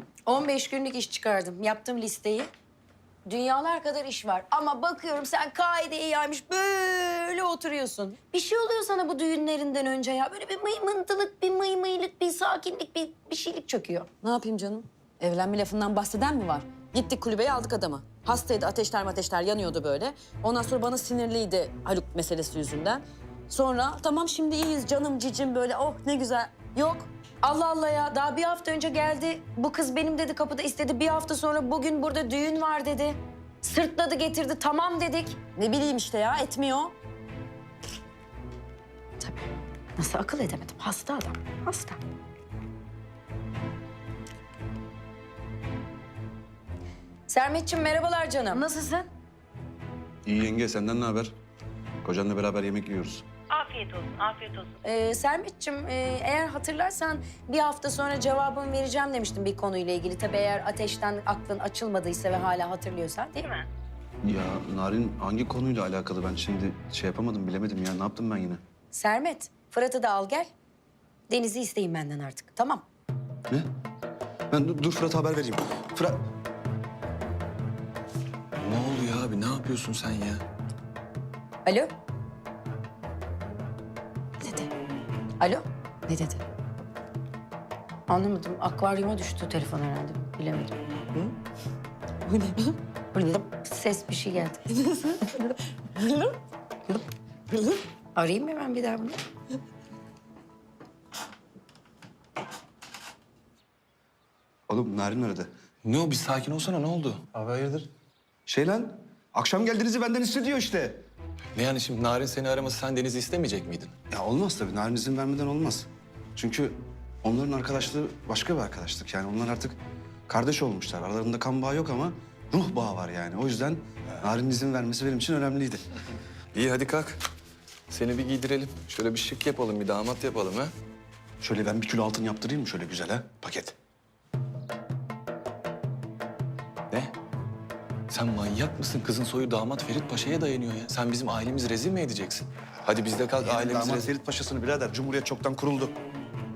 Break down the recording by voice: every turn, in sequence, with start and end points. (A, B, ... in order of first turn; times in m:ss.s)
0:00.2-0:02.5 A
0:03.2-0:14.1 A
0:14.2-0:23.0 B
0:23.5-0:27.0 B
0:27.4-0:35.4 A
0:35.6-0:36.9 B
0:39.2-0:42.0 A
0:47.3-0:49.1 A
0:50.2-0:51.3 C
0:52.0-0:53.2 C
0:53.5-0:54.7 B
0:54.8-1:03.5 A
1:04.2-1:08.6 C
1:08.9-1:10.5 A
1:11.3-1:12.8 A
1:14.5-1:16.2 C
1:18.6-1:20.4 D
1:21.6-1:21.9 A
1:24.4-1:24.7 A
1:25.4-1:26.4 A
1:28.1-1:30.8 A
1:33.1-1:34.7 A
1:36.0-1:36.2 B
1:37.5-1:37.8 B
1:38.1-1:39.2 A
1:44.7-1:45.5 C
1:45.8-1:47.3 D
1:47.3-1:47.9 C
1:48.4-1:51.0 C
1:51.5-1:53.9 D
1:54.1-2:05.9 C
2:06.5-2:07.2 D
2:07.9-2:10.7 D
2:11.4-2:13.7 C
2:18.1-2:24.1 D
2:23.4-2:25.9 C